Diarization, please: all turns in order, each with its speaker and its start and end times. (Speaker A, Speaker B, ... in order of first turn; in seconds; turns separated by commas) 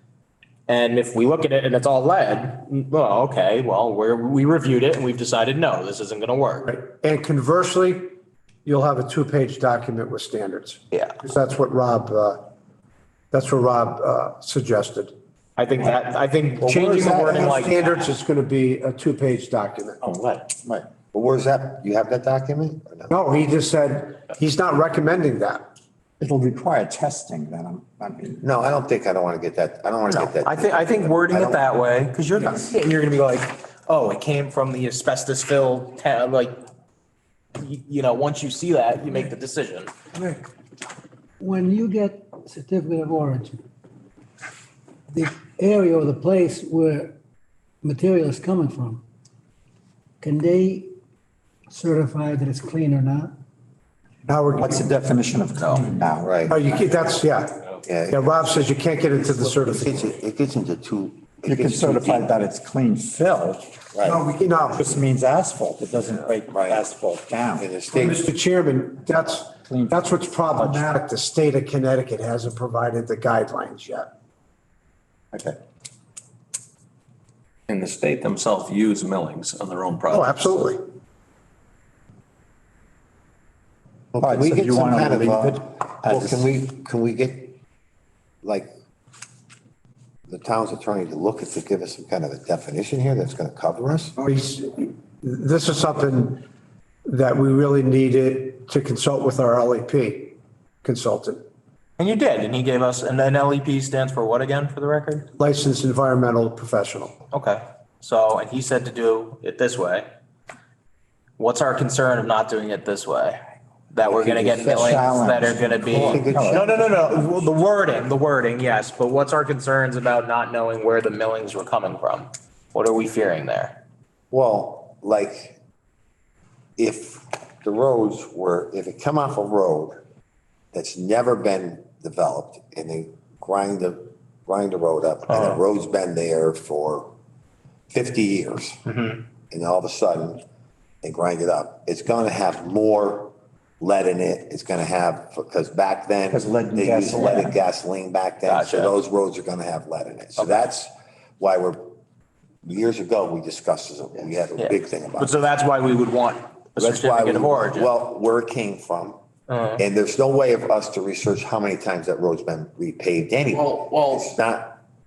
Speaker A: 0.7-6.7, Speaker B: 6.7-8.1, Speaker B: 8.7-12.4, Speaker B: 13.3-15.1, Speaker A: 15.6-18.0, Speaker B: 16.6-20.0, Speaker C: 20.0-20.9, Speaker D: 21.1-23.1, Speaker B: 23.1-25.7, Speaker C: 26.2-28.4, Speaker D: 28.4-31.7, Speaker A: 30.1-36.6, Speaker A: 37.6-39.9, Speaker E: 40.1-40.5, Speaker E: 41.4-43.6, Speaker E: 45.1-47.1, Speaker E: 47.8-49.0, Speaker E: 50.2-50.9, Speaker E: 51.7-53.3, Speaker B: 54.3-54.8, Speaker C: 54.5-56.5, Speaker D: 56.2-56.6, Speaker B: 56.5-60.1, Speaker D: 57.9-58.2, Speaker D: 59.4-62.4, Speaker C: 61.5-63.7, Speaker D: 63.9-64.2, Speaker B: 64.0-64.9, Speaker C: 64.7-67.7, Speaker D: 66.5-66.8, Speaker D: 67.6-68.3, Speaker B: 67.9-74.1, Speaker C: 69.6-71.0, Speaker C: 75.3-75.6, Speaker F: 77.7-80.6, Speaker B: 80.1-80.9, Speaker D: 84.1-87.6, Speaker C: 84.2-86.5, Speaker D: 88.4-88.7, Speaker D: 90.3-94.2, Speaker B: 94.2-96.4, Speaker B: 97.1-101.4, Speaker A: 102.0-105.3, Speaker B: 105.4-107.2, Speaker A: 107.3-110.1, Speaker A: 111.4-113.4, Speaker A: 113.9-123.8, Speaker D: 114.1-115.0, Speaker C: 114.2-116.7, Speaker D: 115.9-117.3, Speaker D: 124.3-125.6, Speaker D: 126.8-130.0, Speaker D: 130.7-137.1, Speaker D: 137.9-138.8, Speaker A: 138.9-139.2, Speaker D: 139.5-140.4, Speaker D: 141.0-151.9, Speaker C: 146.3-147.6, Speaker A: 148.5-149.0, Speaker A: 150.4-150.7, Speaker D: 152.6-155.3, Speaker A: 154.6-157.9, Speaker D: 156.8-159.2, Speaker A: 159.5-159.8, Speaker D: 159.8-164.8